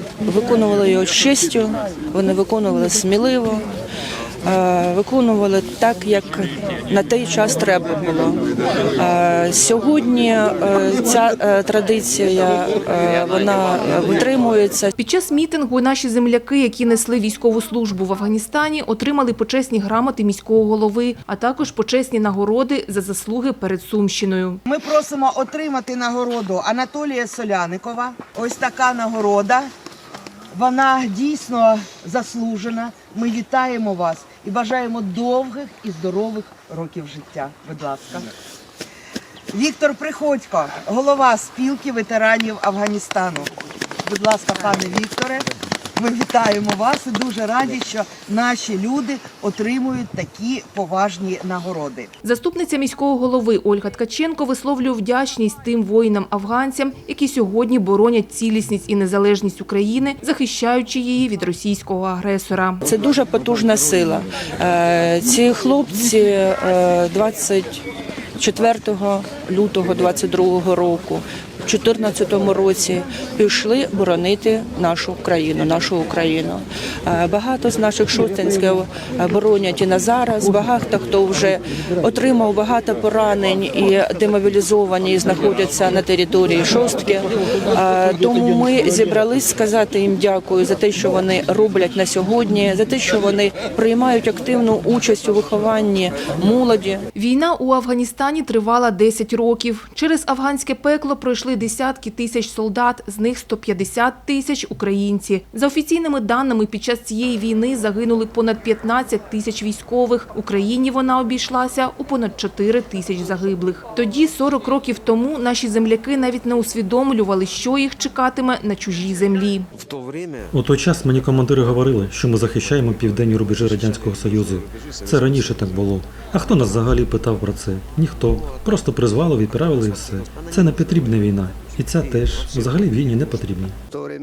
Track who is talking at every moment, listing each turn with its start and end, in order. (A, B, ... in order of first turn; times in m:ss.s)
0:00.2-0:03.7 A
0:04.4-0:08.4 A
0:09.0-0:14.9 A
0:15.0-0:24.6 B
0:24.6-0:29.7 C
0:30.5-0:38.3 C
0:39.5-0:43.5 C
0:44.0-0:52.1 C
0:52.2-1:02.8 B
1:02.8-1:07.8 A
1:08.4-1:37.0 A
1:37.1-1:59.7 B
2:00.5-2:13.8 D